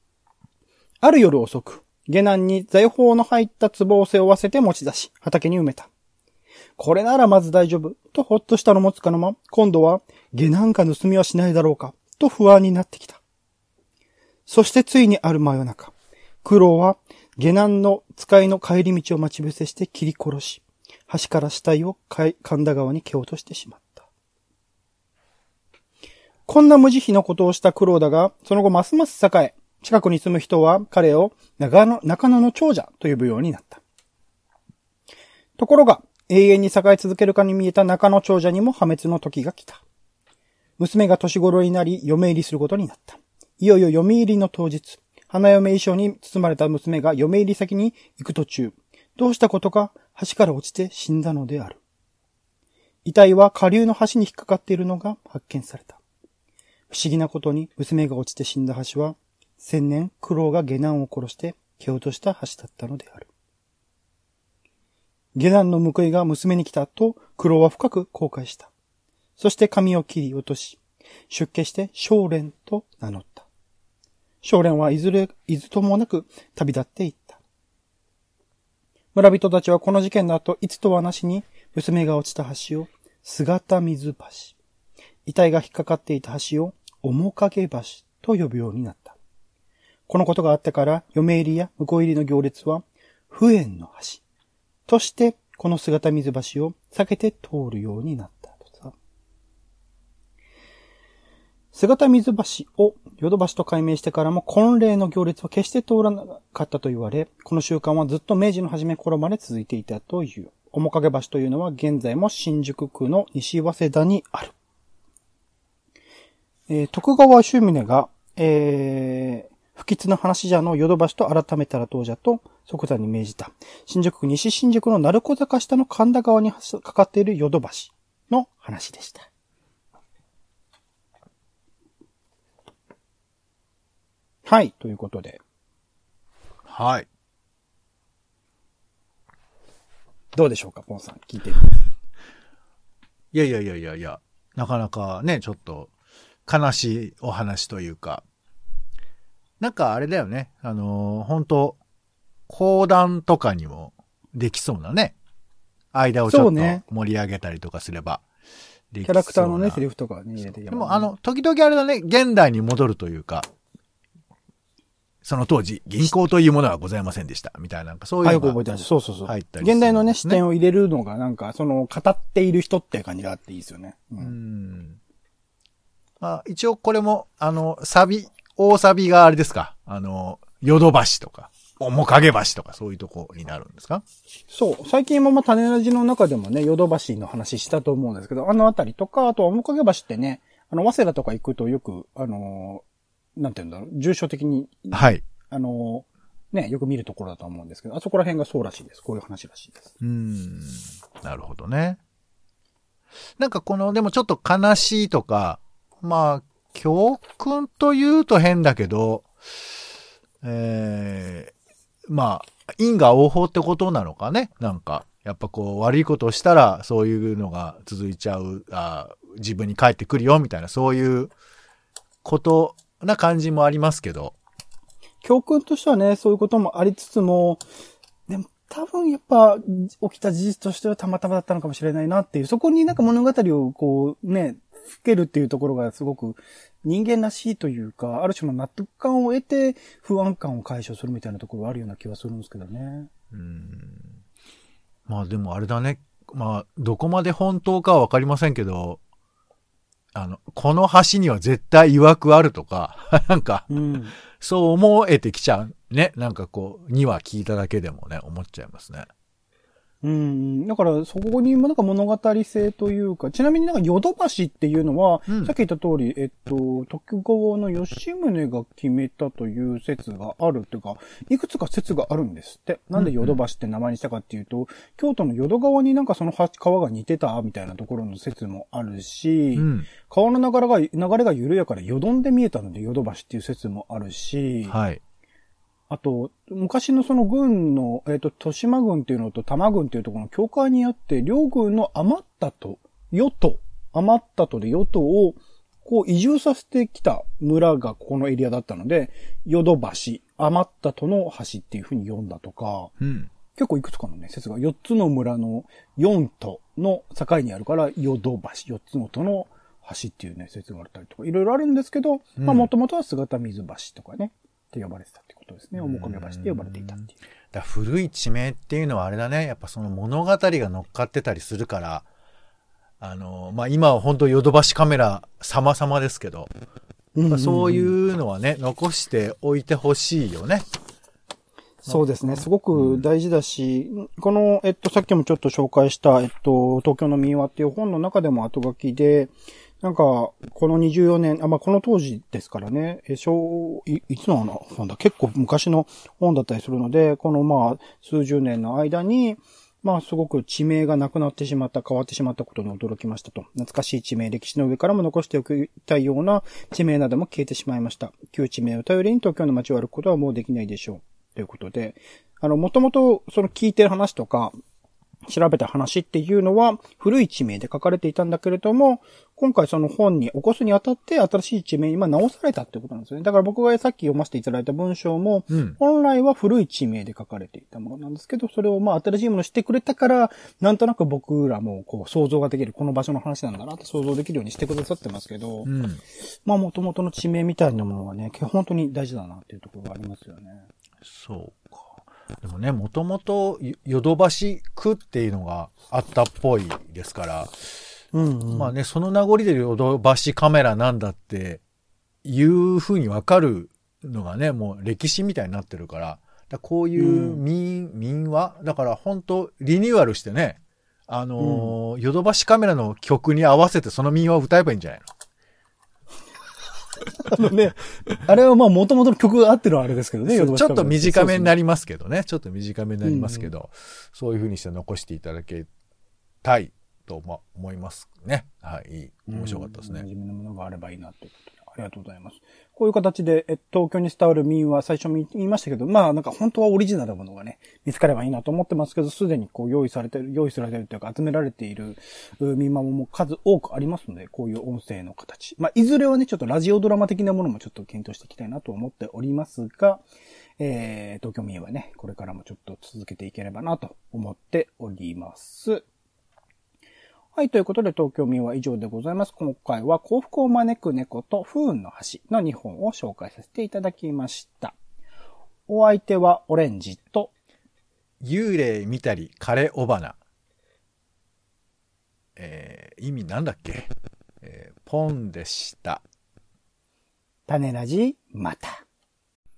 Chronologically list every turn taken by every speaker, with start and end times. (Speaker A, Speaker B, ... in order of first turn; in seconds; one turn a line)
Speaker A: 1.0-5.9
Speaker A: 6.8-13.2
Speaker A: 14.5-24.1
Speaker A: 26.5-33.8
Speaker A: 35.6-39.8
Speaker A: 40.8-51.8
Speaker A: 53.0-56.0
Speaker A: 56.9-63.3
Speaker A: 65.3-68.7
Speaker A: 69.4-73.5
Speaker A: 74.4-77.4
Speaker A: 79.1-84.6
Speaker A: 85.3-89.2
Speaker A: 90.1-94.2
Speaker A: 94.9-99.0
Speaker A: 101.7-114.5
Speaker A: 116.7-129.3
Speaker A: 134.4-135.4
Speaker B: 136.7-137.1
Speaker A: 140.3-141.8
Speaker B: 143.3-145.9
Speaker B: 146.5-148.2
Speaker B: 149.6-151.8
Speaker B: 152.5-155.2
Speaker B: 155.9-158.2
Speaker A: 156.3-156.8
Speaker B: 158.9-159.8
Speaker A: 159.1-161.1
Speaker B: 160.7-163.5
Speaker B: 165.2-168.6
Speaker A: 168.2-174.3
Speaker B: 169.3-170.4
Speaker B: 174.2-175.0
Speaker B: 176.2-184.0
Speaker A: 184.5-192.8
Speaker A: 193.4-199.9
Speaker B: 194.9-195.2
Speaker B: 200.0-202.0
Speaker B: 203.4-209.3
Speaker B: 210.4-211.5
Speaker B: 212.1-221.3
Speaker B: 222.2-224.3
Speaker A: 225.2-227.6
Speaker A: 228.3-243.1
Speaker B: 243.3-244.1
Speaker B: 245.1-249.0
Speaker B: 250.1-253.7
Speaker A: 253.7-254.2
Speaker B: 254.4-259.1
Speaker A: 260.0-284.8
Speaker B: 272.9-273.4
Speaker B: 279.6-279.9
Speaker B: 284.7-285.0
Speaker A: 285.9-302.9
Speaker B: 303.0-303.3
Speaker A: 303.6-317.1
Speaker B: 312.4-312.7
Speaker B: 315.8-316.2
Speaker B: 317.5-322.1
Speaker B: 323.0-326.5
Speaker A: 327.1-327.9
Speaker B: 327.3-330.7
Speaker A: 331.8-364.6
Speaker B: 332.7-333.0
Speaker A: 365.3-385.7
Speaker B: 375.5-375.8
Speaker B: 385.6-386.0
Speaker A: 386.4-390.7
Speaker B: 391.0-397.7
Speaker A: 398.1-398.7
Speaker B: 398.5-401.6
Speaker B: 402.2-415.1
Speaker A: 407.0-407.4
Speaker A: 411.4-411.7
Speaker A: 417.2-421.5
Speaker B: 420.3-425.7
Speaker A: 423.0-423.5
Speaker B: 426.4-430.1
Speaker A: 429.3-450.0
Speaker A: 450.6-455.8
Speaker A: 457.4-464.8
Speaker A: 465.7-467.3
Speaker B: 468.2-470.2
Speaker B: 472.4-473.9
Speaker B: 474.4-476.0
Speaker A: 477.5-478.8